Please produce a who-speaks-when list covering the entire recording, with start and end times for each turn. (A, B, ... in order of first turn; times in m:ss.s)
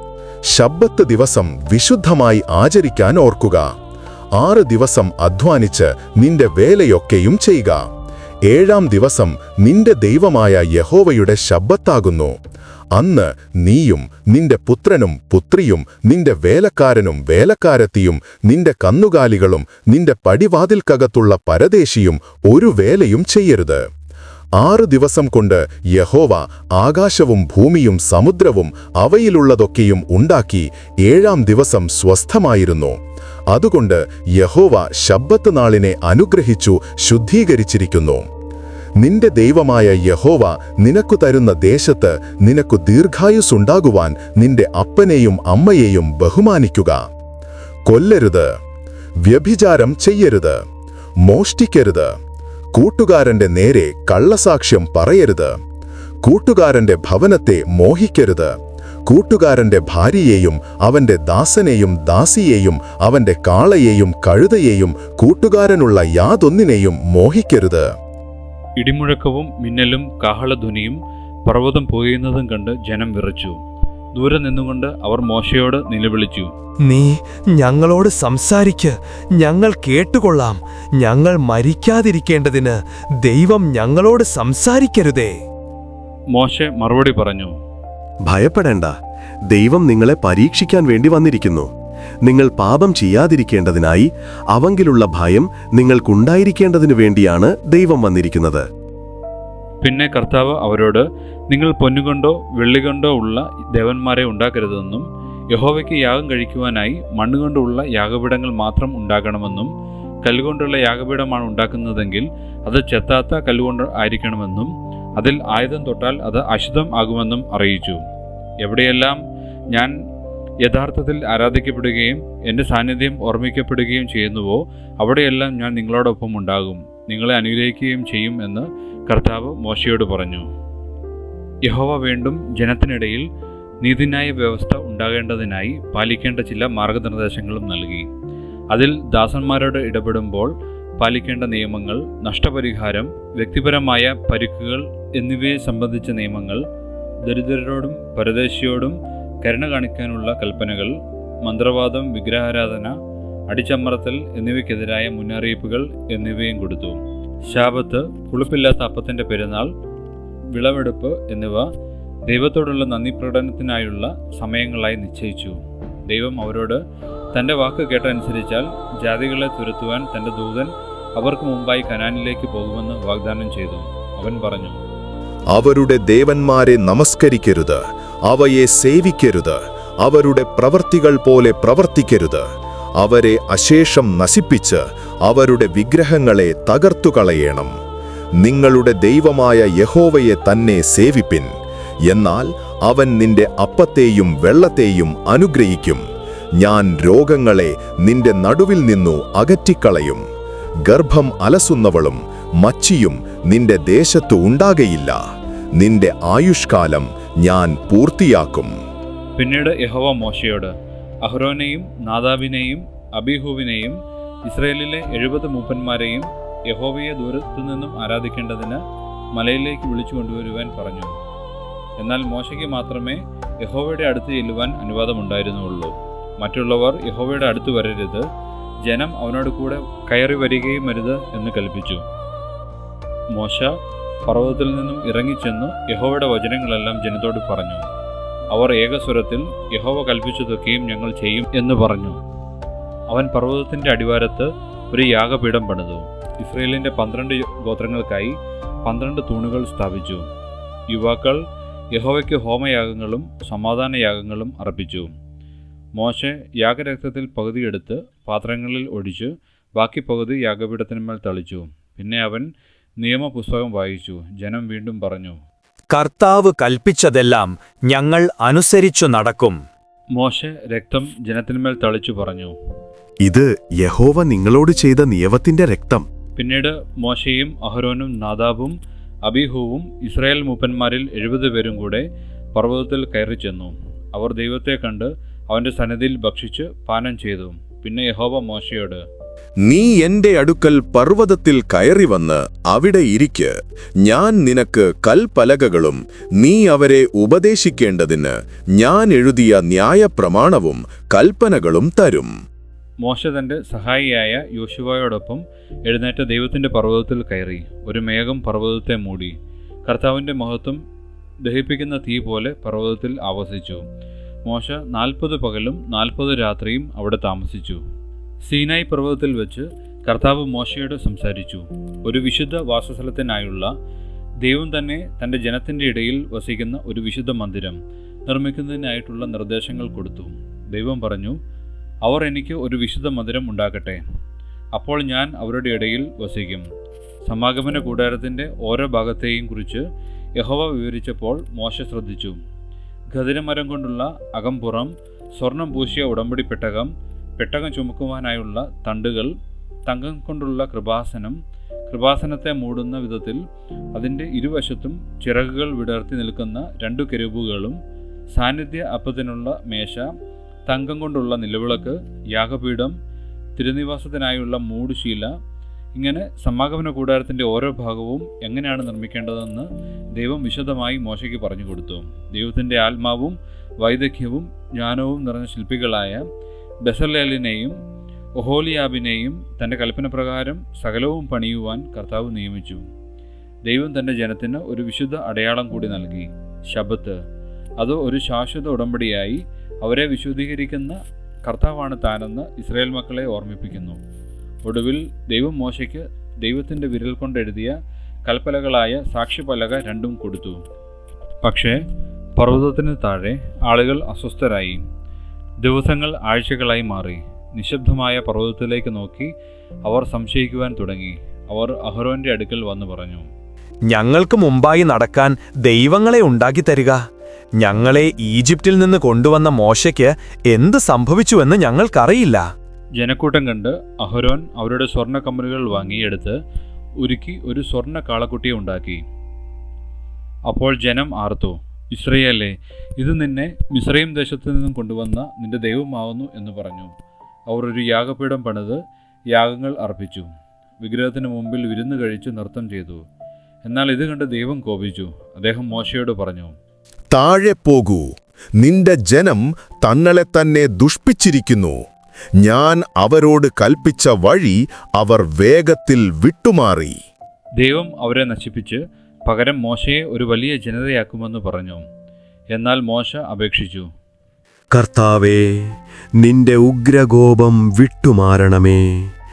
0:00.5-0:03.7 A
0:04.4-0:07.9 A
0:08.5-0:12.4 A
0:13.0-0:23.8 A
0:24.6-0:33.0 A
0:33.5-0:38.3 A
0:39.0-0:47.0 A
0:47.9-0:48.5 A
0:49.2-0:50.6 A
0:51.2-0:52.2 A
0:52.8-0:55.6 A
0:56.2-0:58.5 A
0:59.1-1:07.9 A
1:08.8-1:13.6 B
1:14.2-1:16.5 B
1:16.9-1:25.4 C
1:26.3-1:27.5 B
1:28.3-1:29.0 D
1:29.5-1:31.7 D
1:32.3-1:38.7 D
1:39.8-1:49.7 B
1:50.2-1:58.0 B
1:58.6-2:00.0 B
2:00.6-2:10.5 B
2:11.7-2:13.2 B
2:13.8-2:18.1 B
2:18.7-2:26.6 B
2:27.2-2:33.0 B
2:33.5-2:39.7 B
2:40.5-2:41.7 B
2:42.3-2:45.6 B
2:46.1-2:46.8 B
2:47.3-2:54.8 B
2:55.5-3:02.5 A
3:03.0-3:07.7 A
3:08.4-3:11.5 A
3:12.1-3:16.0 A
3:16.6-3:20.2 A
3:20.9-3:25.2 A
3:25.8-3:28.7 A
3:29.4-3:30.7 B
3:31.2-3:38.8 B
3:39.4-3:41.2 B
3:42.0-3:48.3 B
3:48.8-3:52.0 B
3:53.3-3:53.8 B
3:54.3-3:57.9 B
3:58.5-4:02.2 B
4:03.1-4:10.3 B
4:10.9-4:11.4 B
4:11.9-4:15.1 B
4:16.0-4:22.5 B
4:23.0-4:25.4 B
4:25.9-4:29.6 C
4:30.2-4:32.6 B
4:33.2-4:36.1 D
4:36.4-4:49.0 B
4:49.7-5:02.3 A
5:03.0-5:09.4 B
5:09.9-5:10.8 B
5:11.4-5:13.8 B
5:14.5-5:17.8 B
5:18.4-5:23.7 B
5:24.4-5:31.4 B
5:32.0-5:34.0 B
5:34.8-5:36.7 B
5:37.2-5:39.9 B
5:40.4-5:42.4 B
5:43.1-5:49.3 B
5:49.9-5:53.4 B
5:53.9-5:57.8 B
5:58.4-6:00.1 B
6:00.7-6:03.0 B
6:03.6-6:05.3 B
6:06.0-6:16.3 B
6:16.8-6:17.8 B
6:18.4-6:22.8 B
6:23.7-6:27.2 B
6:27.8-6:34.0 B
6:34.6-6:40.6 B
6:41.4-6:41.8 B
6:42.4-6:44.8 B
6:45.6-6:49.3 B
6:49.8-6:53.3 B
6:53.9-6:57.0 C
6:57.6-7:02.5 C
7:03.0-7:06.4 B
7:07.0-7:09.0 B
7:10.5-7:16.9 B
7:17.5-7:18.8 B
7:19.3-7:20.3 B
7:20.8-7:23.0 B
7:23.6-7:26.5 B
7:27.1-7:28.1 A
7:28.6-7:31.8 A
7:32.4-7:37.0 A
7:37.6-7:41.8 B
7:42.6-7:43.9 B
7:44.7-7:49.1 D